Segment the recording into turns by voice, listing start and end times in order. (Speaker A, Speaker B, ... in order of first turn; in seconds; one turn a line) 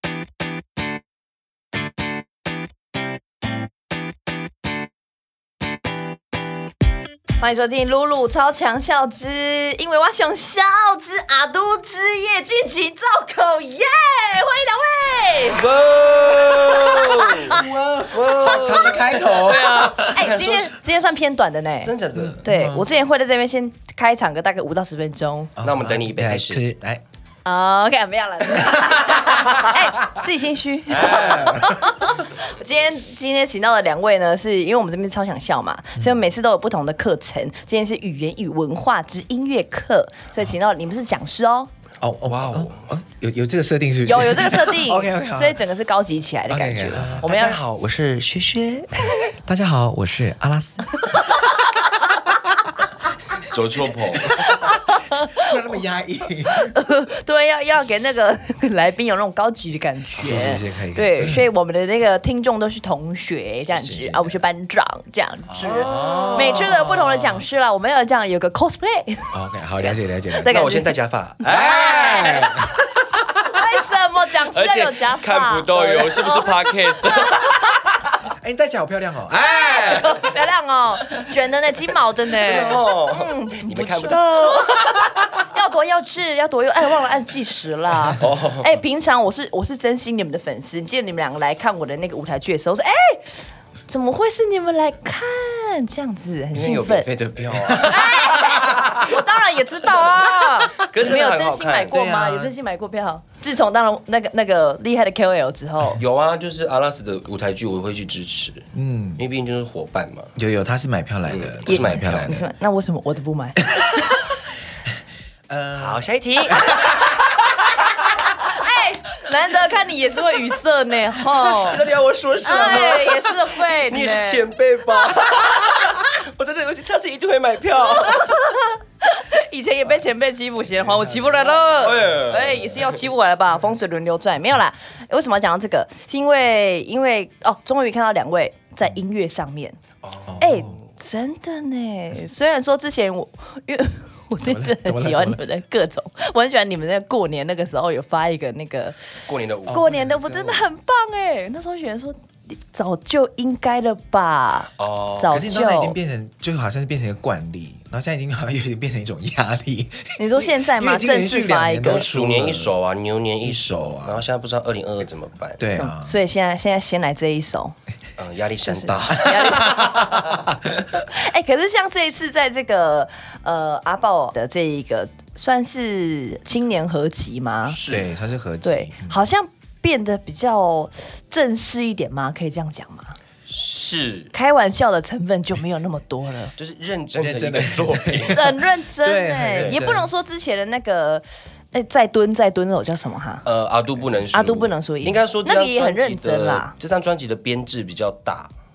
Speaker A: 7.4-15.6
Speaker B: 15.5-20.8
Speaker A: 16.9-17.7
Speaker C: 17.4-20.2
Speaker A: 18.5-19.1
Speaker A: 20.1-25.5
Speaker B: 21.8-22.5
Speaker C: 22.2-22.9
Speaker C: 25.6-27.0
Speaker B: 25.6-26.6
Speaker A: 27.4-41.7
Speaker C: 28.6-29.7
Speaker C: 30.9-31.9
Speaker C: 42.0-45.6
Speaker B: 42.2-42.9
Speaker A: 44.0-47.6
Speaker C: 46.5-47.3
Speaker B: 47.0-49.2
Speaker C: 49.1-51.2
Speaker A: 51.0-51.5
Speaker B: 53.5-54.3
Speaker C: 54.2-54.8
Speaker A: 54.3-55.5
Speaker C: 55.3-56.7
Speaker A: 56.5-70.9
Speaker B: 60.2-60.6
Speaker C: 60.2-61.4
Speaker C: 63.7-64.4
Speaker C: 65.5-67.4
Speaker B: 65.6-66.8
Speaker C: 69.3-70.6
Speaker B: 70.5-72.4
Speaker A: 71.5-72.7
Speaker C: 71.5-73.3
Speaker A: 73.4-77.8
Speaker B: 74.5-77.4
Speaker C: 78.2-80.2
Speaker A: 79.4-97.1
Speaker B: 79.6-80.2
Speaker B: 82.3-84.8
Speaker B: 88.2-88.7
Speaker B: 96.5-98.0
Speaker C: 97.2-99.2
Speaker A: 97.8-106.0
Speaker C: 100.0-100.8
Speaker B: 100.8-102.0
Speaker C: 101.9-102.5
Speaker B: 106.0-108.6
Speaker C: 108.7-109.2
Speaker B: 109.2-110.3
Speaker C: 110.3-112.5
Speaker B: 111.2-112.5
Speaker A: 111.7-114.2
Speaker C: 115.5-117.3
Speaker B: 115.8-116.8
Speaker A: 118.2-121.8
Speaker B: 121.2-128.3
Speaker A: 122.4-124.5
Speaker A: 128.0-139.8
Speaker C: 130.9-131.6
Speaker B: 131.8-133.1
Speaker B: 140.0-140.8
Speaker C: 140.3-140.7
Speaker A: 140.4-156.0
Speaker C: 144.4-145.4
Speaker B: 149.3-149.9
Speaker C: 149.7-150.7
Speaker B: 154.8-155.4
Speaker C: 155.3-162.7
Speaker A: 160.2-162.1
Speaker B: 161.8-165.6
Speaker C: 163.4-164.2
Speaker C: 165.6-166.2
Speaker A: 165.7-167.7
Speaker B: 168.2-169.6
Speaker A: 168.7-170.3
Speaker C: 168.9-170.4
Speaker A: 171.0-177.8
Speaker B: 177.7-178.1
Speaker C: 177.8-179.2
Speaker A: 178.6-183.2
Speaker B: 183.5-184.3
Speaker A: 184.3-186.5
Speaker B: 186.6-188.4
Speaker C: 187.2-190.1
Speaker A: 188.3-193.4
Speaker B: 189.5-189.8
Speaker B: 193.4-198.5
Speaker C: 194.2-194.4
Speaker A: 194.3-196.7